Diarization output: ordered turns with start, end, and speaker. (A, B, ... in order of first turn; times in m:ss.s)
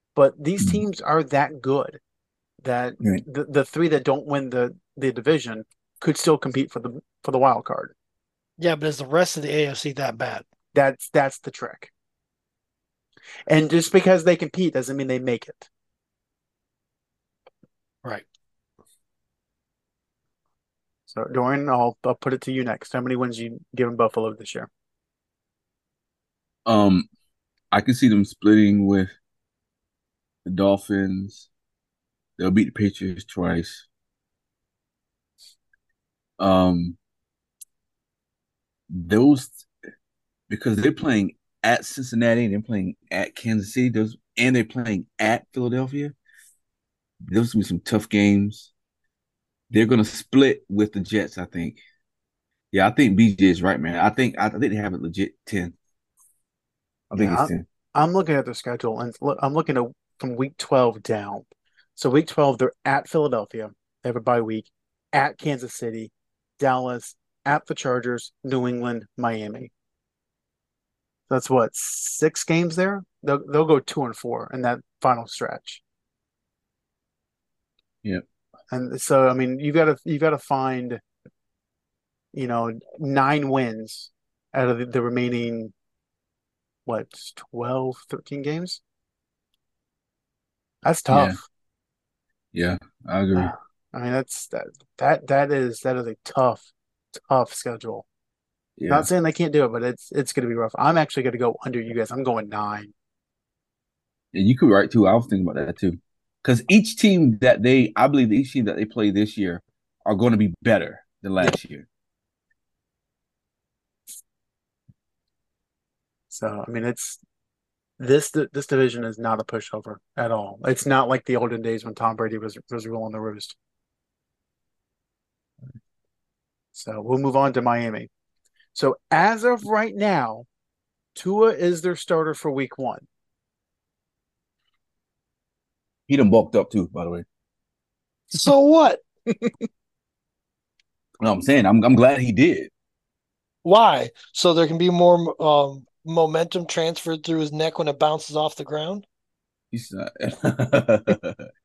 0:00.2-0:02.0 A
0:02.6-0:07.9 A
0:08.6-0:10.4 B
0:10.7-0:11.9 A
0:13.5-0:15.7 A
0:21.1-0:24.7 A
0:26.7-0:27.1 C
0:27.7-0:29.1 C
0:30.4-0:31.5 C
0:32.4-0:33.9 C
0:36.4-0:37.0 C
0:38.9-0:39.7 C
0:40.5-0:46.2 C
0:47.3-0:48.7 C
0:49.7-0:51.8 C
0:52.7-0:55.8 C
0:57.1-1:09.7 A
0:57.2-0:57.6 C
1:11.3-1:15.8 A
1:18.7-1:21.0 A
1:22.3-1:25.7 A
1:26.9-1:28.8 A
1:30.8-1:31.4 A
1:31.1-1:31.4 C
1:32.5-1:33.5 C
1:33.4-1:38.1 A
1:38.8-1:39.1 C
1:38.9-1:42.9 A
1:44.3-1:51.9 C
1:56.3-1:57.2 A
1:58.0-2:03.6 A
2:06.7-2:08.1 A
2:08.8-2:10.5 A
2:11.2-2:13.1 A
2:16.1-2:17.2 C
2:18.3-2:19.0 B
2:21.2-2:22.7 C
2:23.6-2:29.0 B
2:29.7-2:31.5 C